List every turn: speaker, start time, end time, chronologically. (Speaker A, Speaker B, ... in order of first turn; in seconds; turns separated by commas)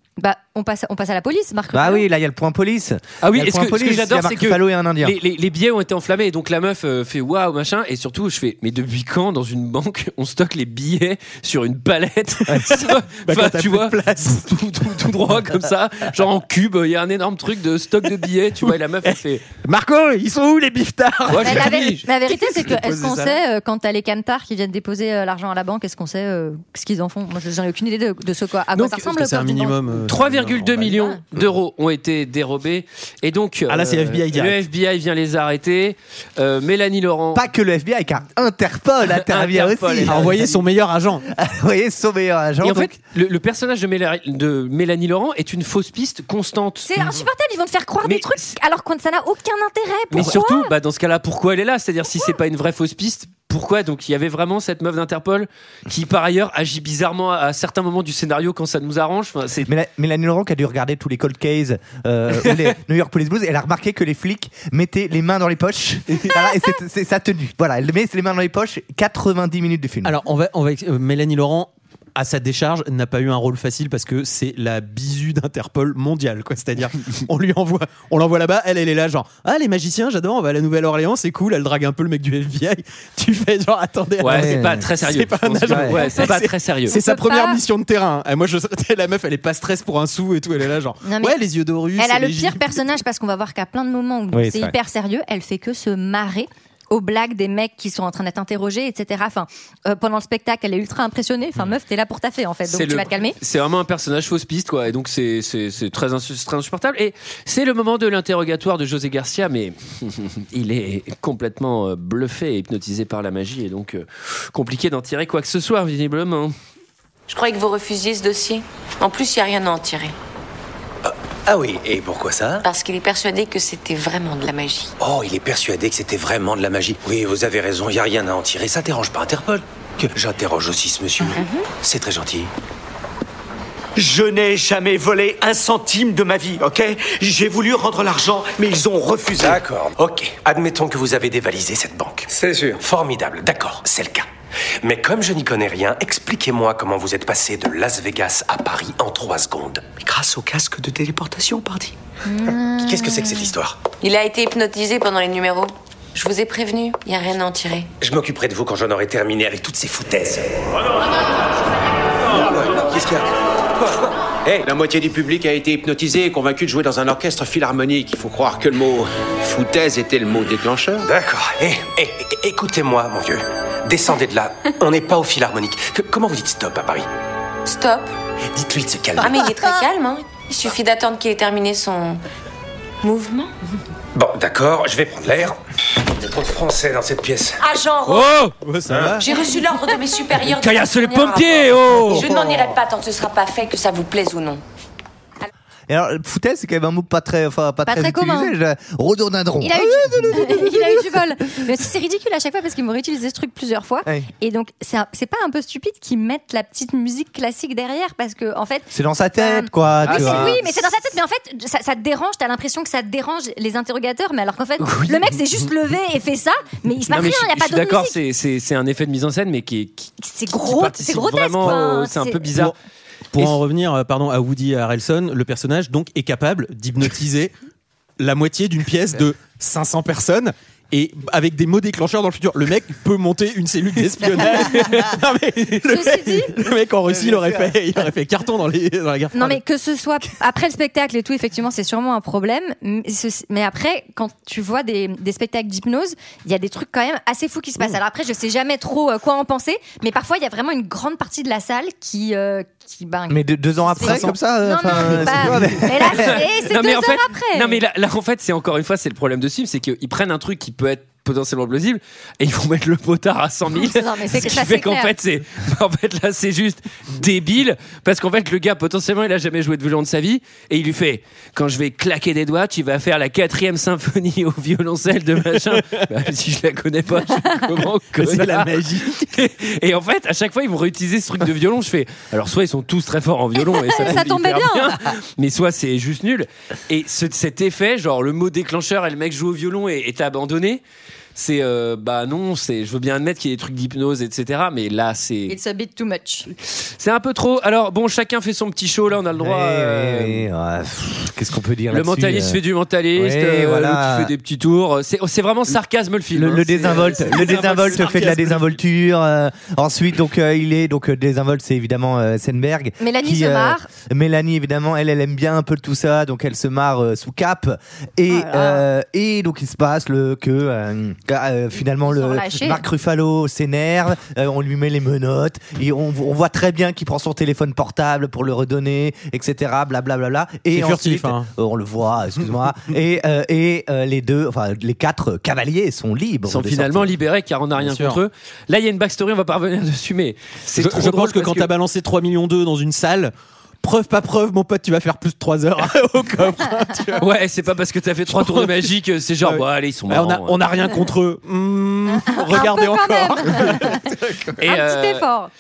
Speaker A: 0.2-2.0, Speaker B: 1.7-5.2, Speaker C: 3.2-19.4, Speaker D: 12.5-15.1, Speaker D: 18.6-23.4, Speaker C: 21.3-22.1, Speaker A: 21.4-29.8, Speaker D: 28.8-31.4, Speaker C: 30.0-37.4, Speaker D: 33.7-34.6, Speaker B: 37.3-40.5, Speaker C: 39.2-40.3, Speaker D: 40.0-41.2, Speaker B: 41.3-42.9, Speaker C: 42.6-46.9, Speaker A: 46.9-50.7, Speaker C: 48.0-48.5, Speaker C: 50.1-59.7, Speaker B: 59.6-70.2, Speaker D: 70.0-92.6, Speaker C: 84.2-87.0, Speaker B: 84.3-84.8, Speaker B: 85.7-86.0, Speaker A: 86.9-87.6, Speaker A: 91.0-91.4, Speaker A: 92.0-103.4, Speaker B: 94.3-94.7, Speaker C: 102.7-116.5, Speaker E: 117.3-120.1, Speaker F: 121.5-122.6, Speaker E: 122.6-124.9, Speaker F: 125.0-129.6, Speaker F: 130.1-132.5, Speaker E: 131.3-131.7, Speaker G: 133.9-139.6, Speaker F: 139.4-144.2, Speaker F: 144.8-150.9, Speaker G: 150.0-151.9, Speaker A: 152.2-153.4, Speaker F: 152.8-153.8, Speaker E: 154.0-157.9, Speaker F: 158.0-160.6, Speaker G: 162.3-163.3, Speaker G: 164.6-171.1, Speaker F: 171.0-177.1, Speaker E: 177.6-178.1, Speaker F: 178.6-179.3, Speaker E: 179.2-182.2, Speaker E: 183.0-183.5, Speaker F: 184.1-185.6, Speaker F: 186.1-187.6, Speaker E: 187.6-188.4, Speaker C: 188.1-188.5, Speaker D: 188.6-189.2, Speaker E: 189.2-194.6, Speaker C: 190.5-192.3, Speaker B: 192.1-192.7, Speaker B: 195.9-201.2, Speaker A: 197.8-198.5, Speaker A: 199.6-218.2, Speaker B: 208.9-210.6, Speaker C: 210.0-210.6, Speaker C: 214.8-215.2, Speaker C: 217.1-222.7, Speaker A: 220.2-222.5, Speaker D: 223.3-227.5, Speaker D: 228.2-239.6, Speaker A: 235.9-236.6, Speaker B: 237.2-237.7, Speaker A: 239.3-257.8, Speaker B: 253.3-256.4, Speaker D: 254.0-254.3, Speaker D: 254.9-255.7, Speaker C: 256.1-290.8, Speaker A: 263.7-265.1, Speaker D: 278.2-279.3, Speaker A: 283.6-285.0, Speaker C: 291.3-295.6, Speaker A: 295.5-296.5, Speaker C: 296.6-300.4, Speaker B: 299.4-302.6, Speaker C: 301.9-308.2, Speaker B: 303.1-304.3, Speaker B: 306.3-337.1, Speaker D: 306.8-308.7, Speaker A: 313.0-313.9, Speaker A: 318.3-318.8, Speaker A: 322.1-322.8, Speaker D: 330.7-331.5, Speaker C: 336.5-341.7, Speaker D: 337.8-338.2, Speaker D: 340.7-347.3, Speaker C: 347.2-350.6, Speaker D: 348.3-354.8, Speaker A: 352.2-354.1, Speaker C: 354.6-355.2, Speaker A: 354.6-355.5